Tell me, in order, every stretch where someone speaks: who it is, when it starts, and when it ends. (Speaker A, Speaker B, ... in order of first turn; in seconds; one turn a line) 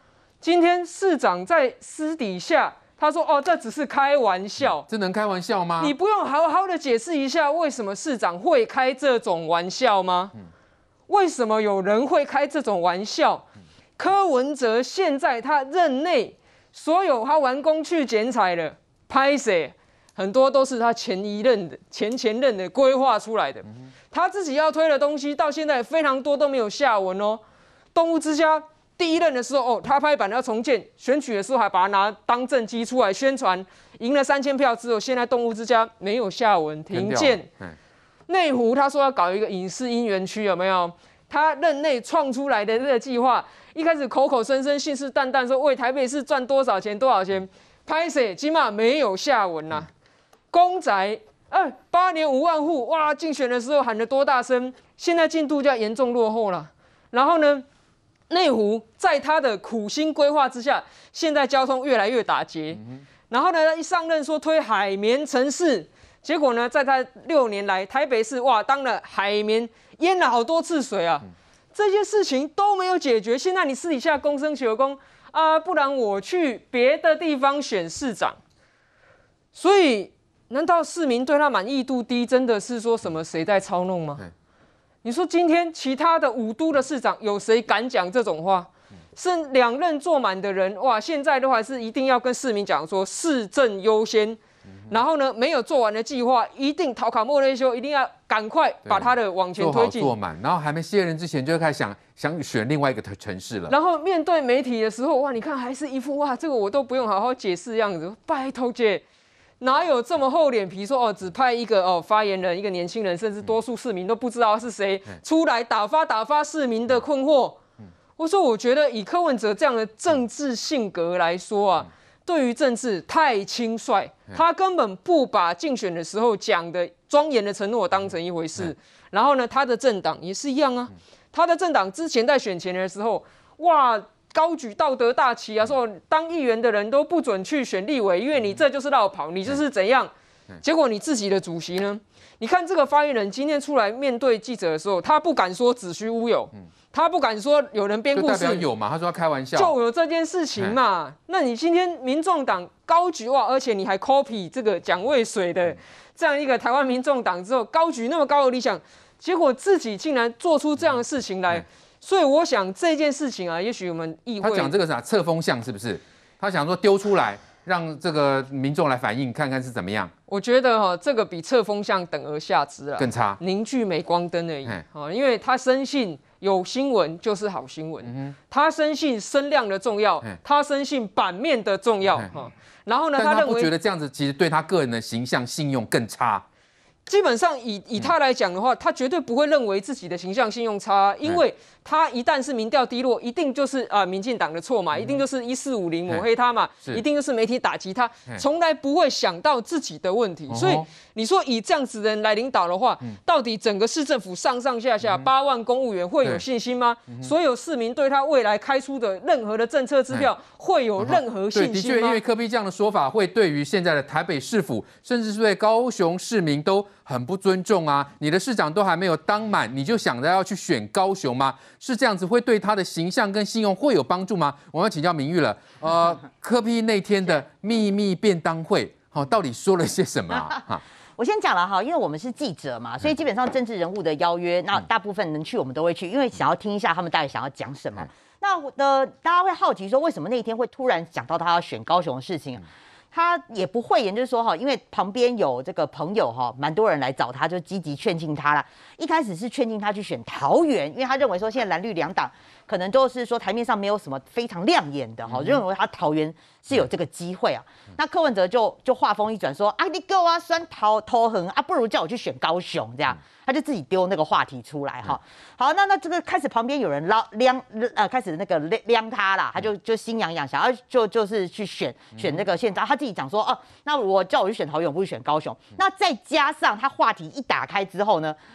Speaker A: 0.4-4.8
Speaker B: 4.9-5.9
Speaker A: 5.8-10.3
Speaker A: 11.1-27.4
Speaker A: 27.9-37.5
Speaker B: 36.9-37.8
Speaker A: 38.3-49.9
Speaker A: 50.5-57.6
Speaker A: 58.3-78.4
Speaker A: 79.5-84.2
Speaker A: 85.0-100.1
Speaker B: 98.9-103.7
Speaker A: 103.7-109.0
Speaker A: 109.6-117.6
Speaker A: 118.2-140.1
Speaker A: 140.6-148.7
Speaker B: 148.1-149.7
Speaker A: 149.6-164.7
Speaker B: 164.4-170.1
Speaker A: 170.3-183.7
Speaker B: 173.0-173.4
Speaker B: 178.0-178.3
Speaker B: 183.2-186.4
Speaker A: 187.1-212.2
Speaker B: 194.9-195.2
Speaker B: 200.5-200.9
Speaker B: 211.0-230.8
Speaker C: 230.3-230.6
Speaker C: 231.2-278.4